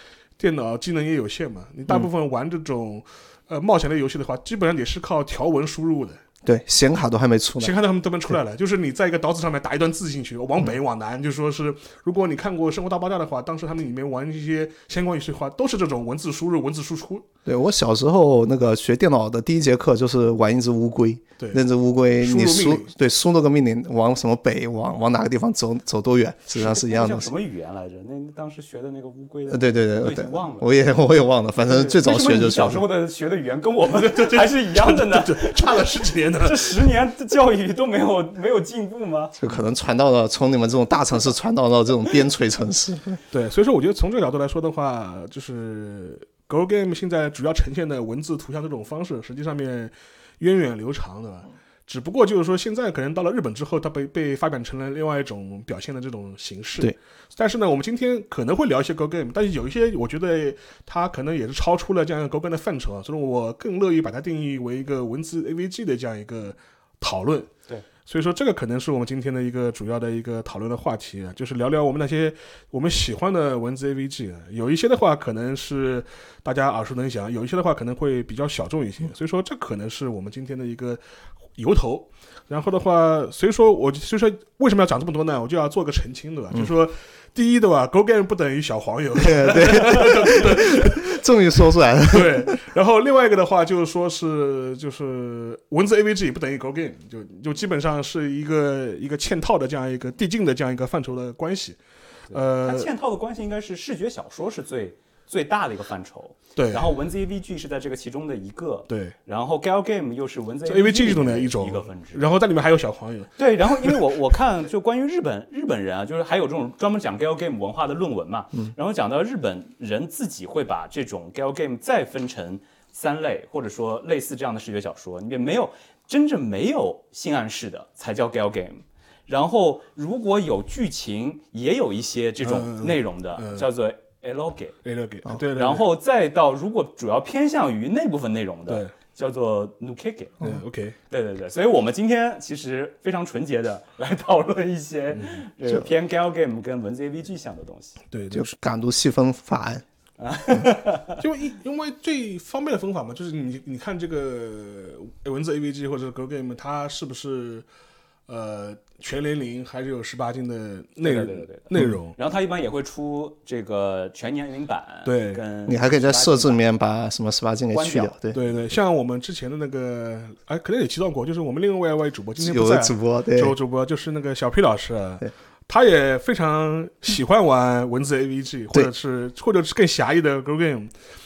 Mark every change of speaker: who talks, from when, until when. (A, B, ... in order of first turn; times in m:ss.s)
0:00.4-0:06.2 A
0:06.4-0:07.8 B
0:07.6-0:17.3 A
0:17.5-0:27.3 B
0:21.4-0:21.7 A
0:22.2-0:22.9 A
0:26.5-0:30.7 C
0:29.5-0:32.8 B
0:31.7-0:39.4 C
0:33.9-0:36.9 A
0:39.4-0:43.2 B
0:43.3-1:07.5 A
1:08.1-1:21.0 A
1:21.6-1:31.2 A
1:29.2-1:32.6 B
1:32.1-1:41.8 A
1:42.3-1:42.9 A
1:42.3-1:52.3 C
1:46.6-1:46.9 A
1:48.9-1:49.2 A
1:50.7-1:54.0 A
1:53.4-2:14.8 C
2:12.4-2:13.7 A
2:14.8-2:15.9 A
2:15.6-2:20.4 C
2:20.4-2:21.0 A
2:21.1-2:28.0 C
2:25.1-2:25.4 A
2:28.1-2:28.5 A
2:28.3-2:29.8 B
2:30.2-2:31.2 C
2:31.2-2:37.6 A
2:38.3-2:42.2 A
2:41.0-2:46.6 C
2:45.0-2:45.4 A
2:45.7-2:48.4 B
2:47.7-2:48.1 C
2:48.3-3:00.9 A
2:52.4-2:53.6 B